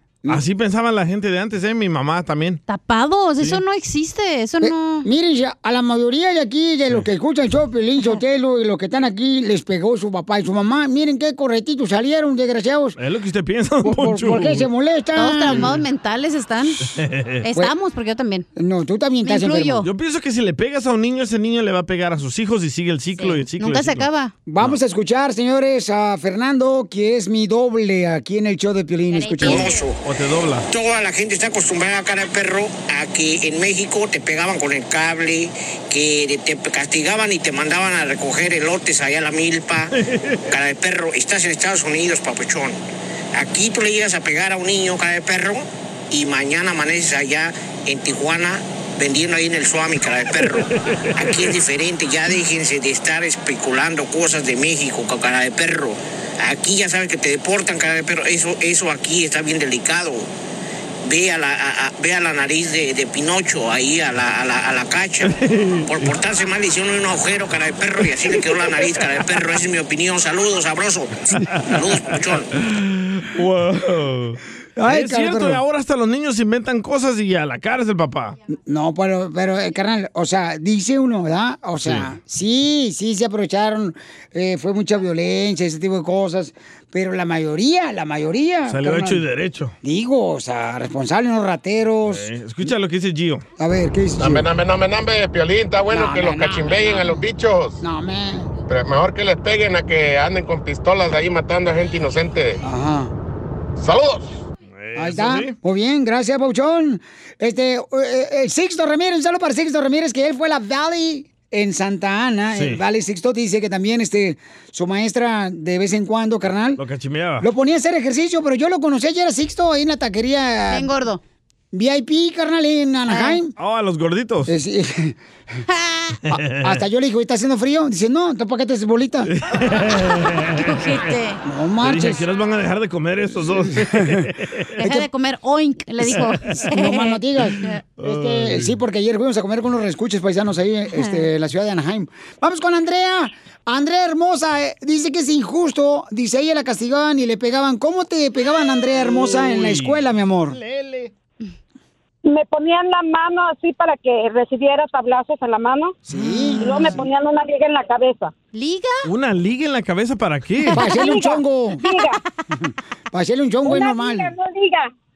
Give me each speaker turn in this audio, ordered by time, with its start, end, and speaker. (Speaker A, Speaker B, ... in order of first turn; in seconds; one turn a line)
Speaker A: 0.3-2.6
Speaker B: 2.7-5.1
Speaker C: 4.6-13.0
Speaker A: 13.0-14.7
Speaker C: 13.8-15.8
Speaker B: 15.2-18.5
Speaker A: 16.9-17.4
Speaker C: 18.6-19.8
Speaker B: 19.2-19.9
Speaker A: 19.8-24.1
Speaker B: 23.2-24.3
Speaker C: 24.5-29.7
Speaker B: 29.1-29.9
Speaker D: 29.4-30.0
Speaker A: 30.0-30.7
Speaker D: 30.7-39.9
Speaker A: 40.0-40.5
Speaker D: 40.5-42.8
Speaker D: 43.4-60.3
Speaker A: 50.3-51.6
Speaker D: 61.0-65.3
Speaker A: 65.2-66.2
Speaker D: 65.9-72.5
Speaker A: 68.0-69.2
Speaker A: 71.4-72.0
Speaker A: 72.6-78.4
Speaker C: 74.8-75.6
Speaker C: 78.7-89.2
Speaker A: 81.8-82.1
Speaker A: 88.7-89.8
Speaker C: 89.8-92.7
Speaker A: 92.1-93.5
Speaker C: 93.6-94.5
Speaker E: 94.2-97.8
Speaker C: 95.9-97.2
Speaker C: 97.8-98.6
Speaker E: 98.7-102.6
Speaker C: 102.6-103.1
Speaker E: 103.8-104.4
Speaker A: 104.8-105.5
Speaker C: 105.0-116.8
Speaker A: 112.5-112.8
Speaker A: 116.8-117.5
Speaker C: 117.4-120.9
Speaker B: 120.7-121.2
Speaker C: 121.7-123.5
Speaker B: 123.1-123.4
Speaker A: 123.6-124.5
Speaker C: 124.5-125.2
Speaker B: 125.7-126.2
Speaker A: 126.3-126.8
Speaker C: 126.3-129.3
Speaker A: 129.3-131.0
Speaker B: 130.2-131.4
Speaker C: 131.4-132.2
Speaker A: 131.8-134.7
Speaker C: 133.6-134.2
Speaker B: 134.8-137.7
Speaker C: 134.8-135.1
Speaker C: 136.7-150.6
Speaker A: 138.0-138.8
Speaker A: 149.0-151.1
Speaker F: 152.3-156.0
Speaker C: 156.1-157.1
Speaker F: 156.6-158.3
Speaker B: 158.5-159.1
Speaker A: 159.0-160.8
Speaker C: 160.7-161.8
Speaker F: 160.9-162.2
Speaker C: 162.6-164.3
Speaker F: 163.6-164.9